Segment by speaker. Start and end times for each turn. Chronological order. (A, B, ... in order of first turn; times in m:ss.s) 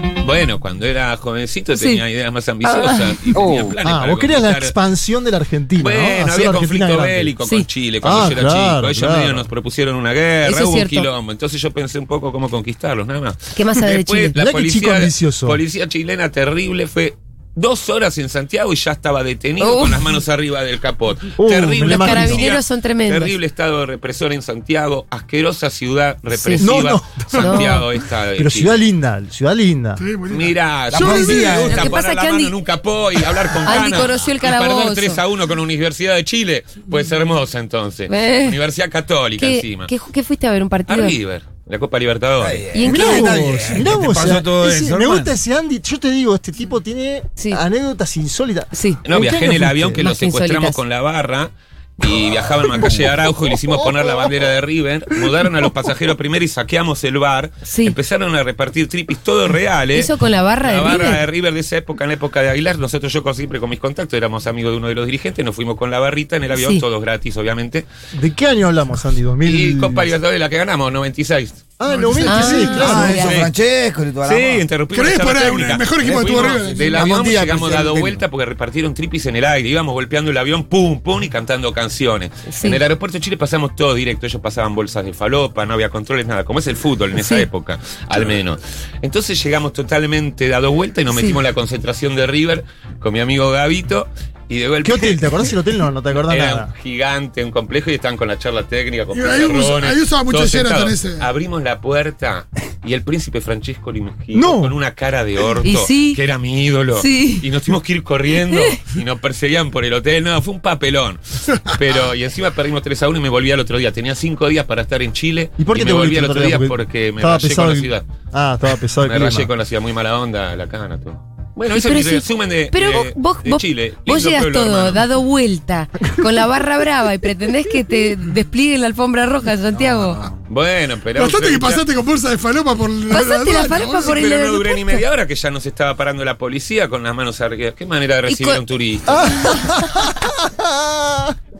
0:00.2-0:04.8 A
0:01.8-0:02.0 B
0:02.6-0:03.2 B
0:03.4-0:03.8 C
0:03.8-0:07.3 D
0:05.8-0:28.8 A
0:08.0-0:09.5 D
0:10.4-0:11.1 B
0:13.6-0:14.4 B
0:14.4-0:15.6 D
0:19.6-0:20.2 B
0:21.4-0:22.5 D
0:21.8-0:23.4 B
0:26.3-0:26.6 B
0:26.6-0:27.8 D
0:27.4-0:27.8 B
0:28.4-0:30.0 D
0:30.0-0:30.6 E
0:30.3-0:39.9 A
0:30.9-0:32.0 C
0:30.9-0:31.8 D
0:31.0-0:32.6 B
0:33.6-0:35.2 B
0:38.1-0:38.6 B
0:39.4-0:41.2 B
0:40.9-0:42.7 A
0:42.4-0:45.4 C
0:42.7-0:43.6 B
0:42.8-0:50.1 D
0:48.7-0:49.0 B
0:49.0-1:07.9 A
0:50.0-0:50.8 B
0:57.6-0:58.0 B
0:59.9-1:01.2 B
1:06.5-1:06.8 B
1:08.1-1:10.1 D
1:09.4-1:11.6 A
1:11.8-1:13.3 D
1:11.8-1:13.0 E
1:12.2-1:13.4 B
1:12.8-1:14.7 C
1:13.1-1:13.5 A
1:14.2-1:35.5 A
1:14.9-1:17.0 E
1:16.0-1:18.2 C
1:22.5-1:22.8 B
1:27.2-1:27.4 B
1:31.1-1:31.4 B
1:34.8-1:36.7 D
1:36.3-1:58.0 A
1:39.1-1:41.3 E
1:44.3-1:44.7 D
1:45.6-1:46.2 B
1:46.9-1:47.5 B
1:48.5-1:48.8 B
1:55.6-1:59.5 D
1:59.0-2:05.1 A
2:01.7-2:10.3 B
2:10.5-2:11.9 A
2:11.1-2:14.2 E
2:13.1-2:15.0 B
2:13.8-2:19.4 A
2:18.3-2:18.6 B
2:19.1-2:21.4 D